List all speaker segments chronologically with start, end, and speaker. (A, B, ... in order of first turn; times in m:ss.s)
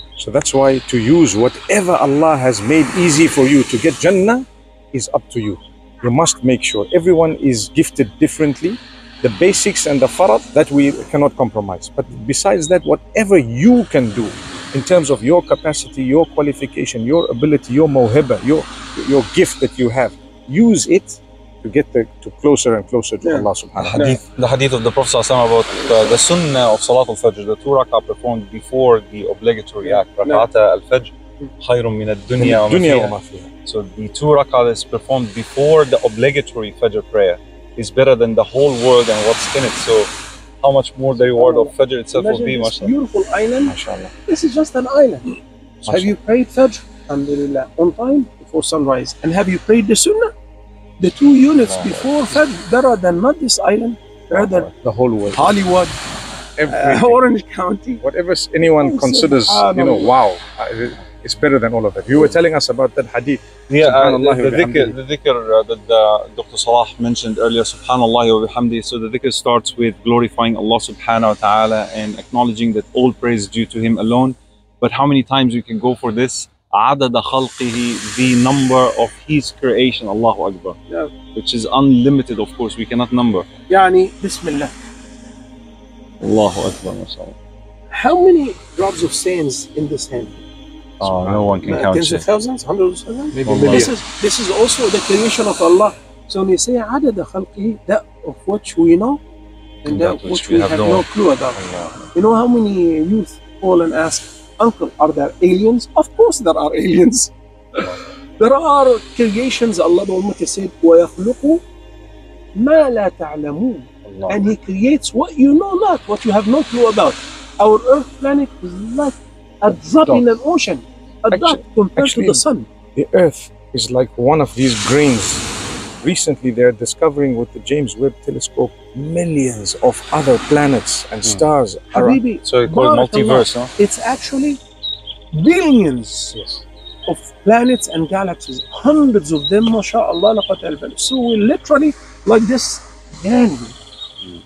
0:00.2-0:24.2 A
0:23.2-0:24.2 B
0:23.8-0:33.1 C
0:29.8-0:30.5 B
0:32.4-0:33.5 A
0:33.6-0:42.9 C
0:41.2-0:50.3 B
0:43.6-0:44.1 A
0:45.8-0:46.1 A
0:51.0-0:54.7 B
0:54.6-0:55.6 A
0:55.3-0:55.9 B
0:56.6-0:57.2 A
0:56.7-0:58.0 B
0:58.0-1:05.0 A
0:58.8-1:00.1 B
1:03.7-1:20.8 C
1:21.3-1:23.5 C
1:23.7-1:24.7 B
1:26.2-1:27.4 C
1:27.9-1:30.4 B
1:31.0-1:31.7 A
1:31.0-1:32.2 C
1:31.6-1:39.2 B
1:33.3-1:34.0 A
1:33.4-1:33.9 C
1:39.8-1:41.9 C
1:39.8-1:41.6 B
1:42.1-1:51.6 B
1:52.5-2:02.7 B
1:54.0-1:54.5 A
2:01.3-2:02.4 A
2:02.9-2:12.2 A
2:11.9-2:14.6 B
2:12.4-2:13.7 C
2:15.3-2:16.3 B
2:16.3-2:16.6 A
2:17.1-2:23.7 B